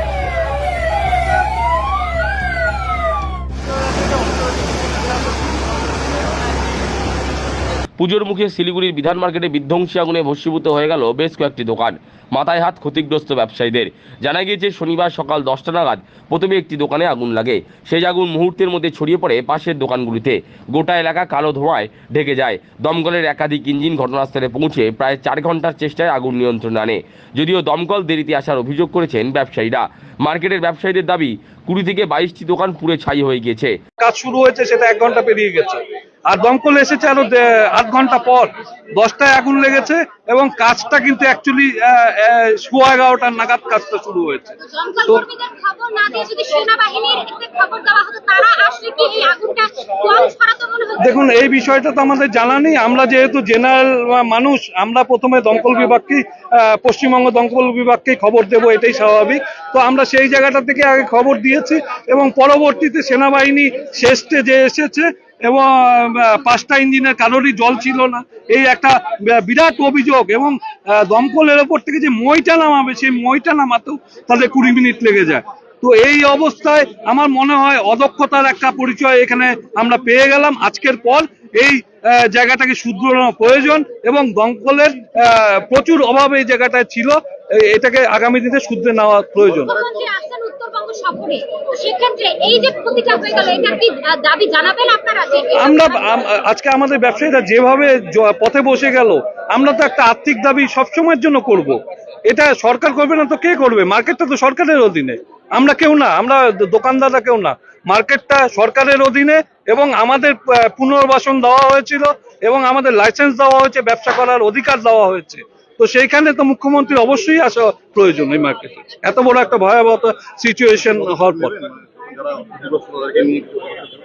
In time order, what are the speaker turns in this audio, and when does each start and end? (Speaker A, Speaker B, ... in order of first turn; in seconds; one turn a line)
Speaker A: 8.0-33.7
Speaker B: 34.0-45.2
Speaker C: 44.7-51.3
Speaker B: 51.0-89.8
Speaker C: 89.7-96.2
Speaker B: 95.5-121.6
Speaker B: 122.5-123.4